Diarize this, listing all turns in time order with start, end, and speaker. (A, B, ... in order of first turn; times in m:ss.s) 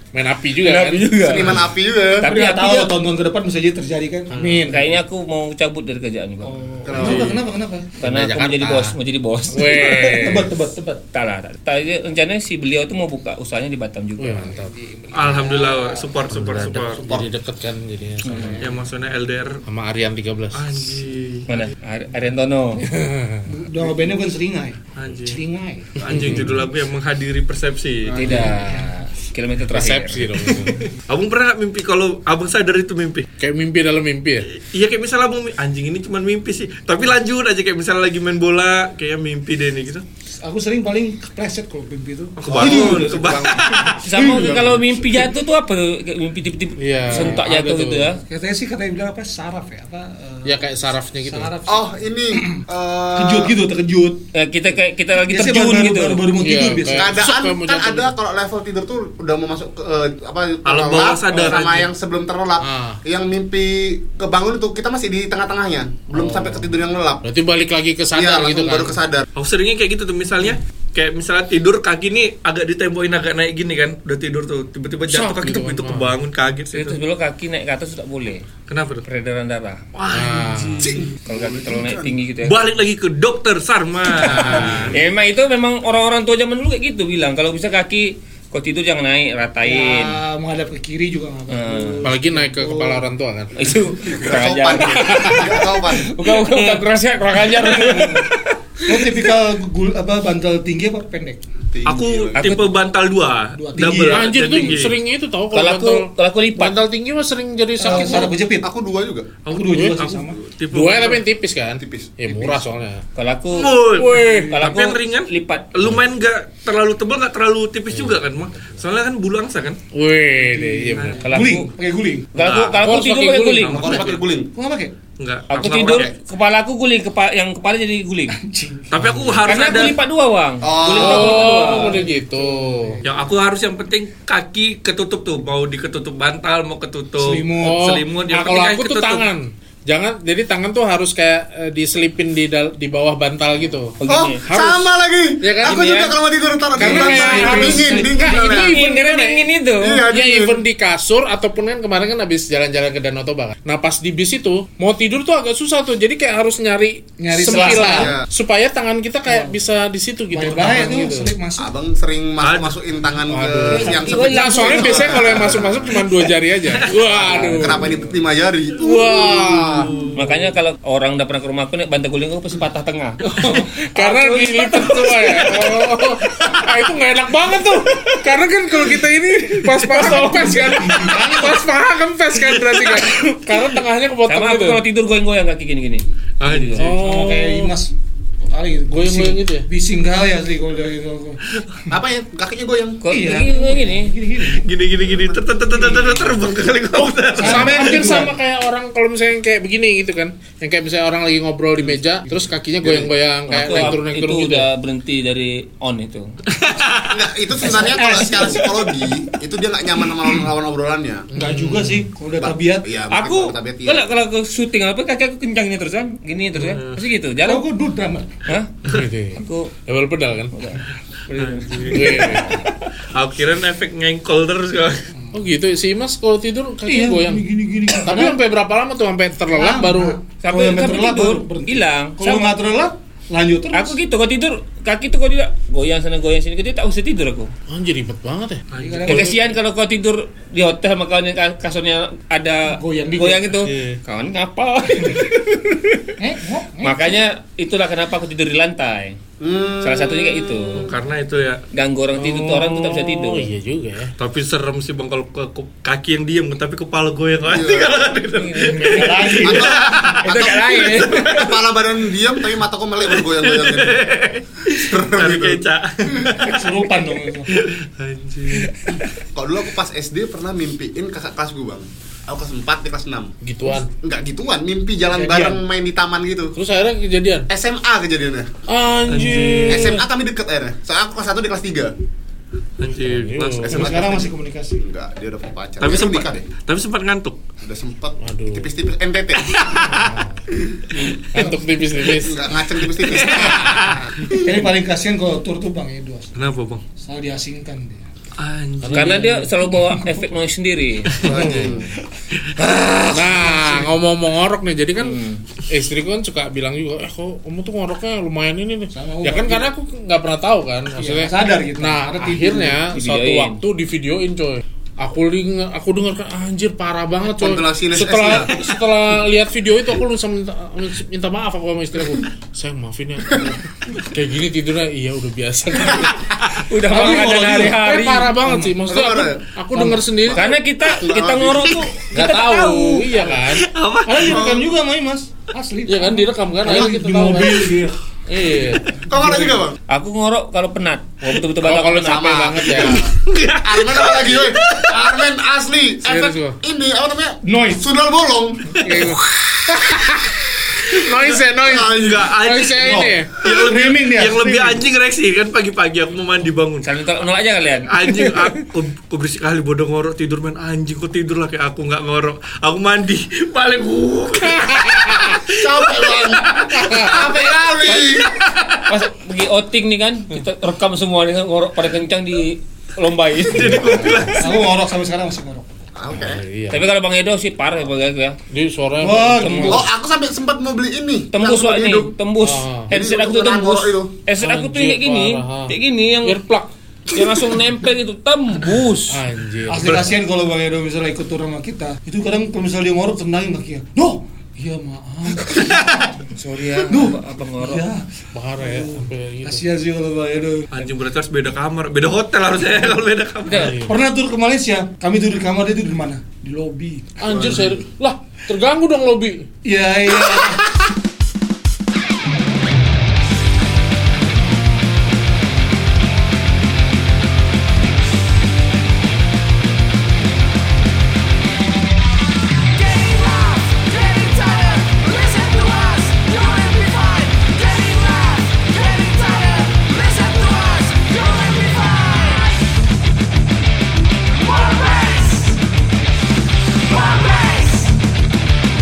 0:00.1-0:01.1 A
0:00.6-0:01.6 B
0:01.2-0:02.3 C
0:02.2-0:02.9 B
0:02.2-0:04.9 D
0:04.3-0:04.7 A
0:04.6-0:06.6 B
0:06.4-0:08.1 D
0:06.8-0:07.4 C
0:06.9-0:07.3 E
0:08.0-0:10.1 B
0:08.0-0:09.0 A
0:09.5-0:10.5 A
0:09.7-0:11.0 D
0:11.1-0:14.7 B
0:14.2-0:14.7 A
0:14.7-0:16.1 D
0:15.1-0:17.0 E
0:16.3-0:18.7 A
0:18.2-0:18.6 B
0:18.6-0:19.6 E
0:19.7-0:21.0 A
0:20.5-0:21.6 E
0:21.5-0:22.9 B
0:22.8-0:23.5 A
0:23.5-0:26.1 D
0:25.0-0:25.4 E
0:26.0-0:28.5 E
0:26.0-0:26.6 A
0:28.1-0:28.9 D
0:28.1-0:30.3 B
0:28.2-0:28.8 A
0:29.7-0:30.9 A
0:30.4-0:33.3 E
0:33.4-0:34.5 A
0:34.5-0:40.0 E
0:40.4-0:44.6 D
0:42.4-0:44.0 E
0:42.5-0:44.8 A
0:44.0-0:48.2 B
0:46.8-0:48.1 A
0:48.2-0:50.6 D
0:50.4-0:51.5 A
0:51.3-0:52.6 D
0:51.6-0:53.6 C
0:53.2-0:54.2 D
0:54.3-0:56.2 B
0:55.3-0:57.1 D
0:56.4-0:58.1 A
0:56.9-1:07.2 C
1:00.6-1:01.9 E
1:02.6-1:03.0 A
1:06.1-1:06.6 A
1:07.2-1:09.0 A
1:08.1-1:09.2 C
1:09.4-1:17.0 E
1:15.1-1:16.2 A
1:16.7-1:18.5 B
1:18.7-1:19.0 E
1:19.0-1:19.8 B
1:19.9-1:21.1 E
1:20.1-1:21.0 A
1:20.8-1:22.2 C
1:21.2-1:22.6 B
1:22.4-1:24.9 E
1:24.1-1:25.0 A
1:24.2-1:30.2 B
1:29.6-1:33.1 D
1:31.5-1:32.1 B
1:32.0-1:33.5 A
1:33.5-1:39.2 B
1:34.0-1:36.1 C
1:35.0-1:35.5 A
1:37.7-1:38.2 A
1:37.9-1:38.2 D
1:38.8-1:41.4 D
1:41.7-1:42.6 C
1:41.8-1:45.0 E
1:42.4-1:42.7 B
1:43.5-1:44.7 D
1:44.1-1:48.3 A
1:45.5-1:46.8 B
1:47.8-1:48.7 D
1:47.8-1:48.3 B
1:48.6-1:49.3 C
1:49.4-1:51.2 E
1:49.5-1:50.4 D
1:49.7-1:50.0 A
1:50.7-1:53.0 A
1:51.8-1:52.6 C
1:53.2-1:53.8 B
1:53.5-1:59.8 E
1:53.7-1:54.7 A
1:54.5-1:55.8 B
1:59.9-2:01.3 A
2:00.5-2:02.3 D
2:00.9-2:01.5 E
2:01.1-2:01.7 B
2:02.3-2:03.8 B
2:02.3-2:02.9 E
2:02.8-2:03.9 A
2:03.6-2:04.2 E
2:03.7-2:04.5 C
2:04.5-2:04.9 D
2:05.2-2:06.1 E
2:05.5-2:08.4 B
2:05.7-2:06.1 C
2:08.4-2:08.9 D
2:08.9-2:10.0 E
2:09.1-2:09.4 C
2:09.4-2:12.0 B
2:10.6-2:11.6 C
2:10.8-2:13.0 A
2:11.6-2:13.3 D
2:13.0-2:19.2 E
2:17.2-2:17.9 D
2:17.6-2:25.9 A
2:24.0-2:24.4 B
2:24.0-2:28.8 C
2:25.6-2:26.1 B
2:26.7-2:29.5 A
2:26.8-2:28.3 D
2:28.2-2:30.0 B
2:29.8-2:30.6 C
2:30.1-2:41.3 A
2:37.2-2:38.2 D
2:37.8-2:38.3 C
2:39.3-2:39.6 D
2:40.3-2:41.7 D
2:41.6-2:45.9 C
2:42.4-2:42.8 E
2:43.3-2:47.9 A
2:43.7-2:45.5 B
2:47.1-2:49.3 C
2:47.2-2:47.9 B
2:48.8-2:50.1 A
2:49.6-2:50.2 E
2:50.1-2:55.7 B
2:53.2-3:04.8 A
2:59.7-3:01.3 B
3:00.1-3:01.4 D
3:04.2-3:07.0 B
3:06.4-3:07.1 E
3:06.8-3:07.7 A
3:07.0-3:07.9 D
3:08.4-3:11.9 D
3:08.9-3:09.7 A
3:11.9-3:13.0 C
3:13.0-3:14.2 B
3:13.1-3:16.5 D
3:14.5-3:18.0 E
3:17.4-3:18.4 D
3:17.4-3:24.7 A
3:23.5-3:26.3 B
3:26.6-3:27.2 E
3:27.0-3:31.3 C
3:27.6-3:29.3 D
3:31.3-3:32.1 A
3:31.3-3:32.9 D
3:32.4-3:34.0 C
3:33.1-3:37.6 B
3:36.6-3:37.0 E
3:37.4-3:38.3 D
3:38.4-3:39.7 B
3:38.9-3:40.5 A
3:40.5-3:42.9 B
3:41.3-3:42.4 E
3:41.9-3:42.7 A
3:43.0-3:45.1 E
3:45.3-3:50.2 A
3:46.8-3:48.4 D
3:49.5-3:54.0 D
3:50.4-3:52.5 B
3:53.7-3:57.5 B
3:57.7-3:59.4 A
3:58.7-3:59.2 E
3:58.7-3:59.4 D
3:59.1-4:06.1 B
4:02.7-4:03.4 D
4:03.6-4:04.0 A
4:06.2-4:07.2 D
4:06.8-4:09.2 B
4:09.4-4:11.0 C
4:09.8-4:10.9 B
4:10.7-4:11.6 E
4:11.7-4:13.5 B
4:12.2-4:14.1 A
4:14.2-4:21.6 E
4:17.5-4:18.1 C
4:18.3-4:21.5 B
4:18.7-4:19.9 D
4:19.4-4:24.0 C
4:23.1-4:28.7 E
4:24.7-4:25.6 C
4:26.4-4:27.5 D
4:28.5-4:29.2 B
4:29.3-4:36.5 C
4:33.4-4:33.9 A
4:35.1-4:35.6 D
4:36.5-4:37.5 A
4:37.5-4:38.6 C
4:38.7-4:40.0 A
4:39.1-4:39.9 E
4:39.7-4:41.9 C
4:42.8-4:44.1 E
4:42.8-4:43.8 A
4:43.4-4:46.5 C
4:43.7-4:44.8 D
4:45.8-4:47.4 E
4:47.6-4:49.7 C
4:48.2-4:48.7 A
4:49.4-4:50.1 E
4:49.9-4:50.4 A
4:50.5-4:50.8 C
4:51.1-4:52.5 A
4:51.3-4:52.0 D
4:52.1-4:53.9 C
4:53.0-4:54.1 E
4:53.3-4:54.0 A
4:54.3-4:56.3 D
4:56.3-4:56.8 E
4:57.0-4:58.0 D
4:58.4-4:59.4 E
4:58.8-4:59.5 A
4:58.9-5:01.3 B
5:01.2-5:01.9 C
5:01.3-5:01.9 A
5:02.6-5:03.0 E
5:03.1-5:30.5 A
5:03.5-5:03.8 D
5:05.0-5:05.4 B
5:08.9-5:09.7 D
5:10.9-5:12.9 D
5:12.9-5:13.6 B
5:17.2-5:18.5 C
5:26.6-5:28.3 B
5:26.8-5:28.7 D
5:28.8-5:29.4 C
5:29.7-5:30.0 D
5:30.2-5:31.9 C
5:30.3-5:33.3 B
5:32.1-5:34.6 A
5:33.3-5:34.4 E
5:34.1-5:38.0 D
5:34.2-5:34.6 C
5:35.9-5:37.7 A
5:38.3-5:38.9 A
5:39.1-5:39.8 C
5:39.1-5:39.6 D
5:39.9-5:43.0 B
5:41.6-5:43.0 A
5:41.9-5:43.1 C
5:43.0-5:45.2 E
5:43.6-5:48.8 C
5:46.0-5:46.6 A
5:47.4-5:47.8 D
5:48.7-5:49.2 E
5:48.8-5:53.4 A
5:50.8-5:52.3 C
5:51.9-5:56.8 E
5:52.8-5:54.8 D
5:56.8-5:57.9 B
5:57.9-6:07.0 E
6:04.4-6:05.4 A
6:05.4-6:08.4 C
6:06.8-6:07.2 A
6:07.8-6:08.2 B
6:08.8-6:14.3 B
6:13.4-6:14.6 E
6:13.5-6:14.4 A
6:14.4-6:15.9 D
6:15.9-6:16.4 C
6:16.1-6:16.9 A
6:16.7-6:18.4 B
6:18.5-6:19.8 A
6:19.0-6:19.8 D
6:19.4-6:19.9 B
6:19.7-6:22.1 C
6:21.3-6:26.4 B
6:22.4-6:22.9 A
6:22.9-6:24.1 C
6:24.4-6:26.7 A
6:27.1-6:29.2 B
6:29.1-6:30.2 A
6:29.7-6:36.1 D
6:36.3-6:37.8 B
6:36.7-6:38.0 D
6:38.3-6:39.6 A
6:38.6-6:40.9 D
6:40.7-6:43.7 E
6:43.5-6:43.8 B
6:43.5-6:44.0 A
6:43.8-6:47.6 D
6:47.2-6:49.5 A
6:47.4-6:47.7 C
6:49.6-6:50.7 D
7:02.7-7:12.6 D
7:14.3-7:15.6 D
7:16.9-7:18.0 D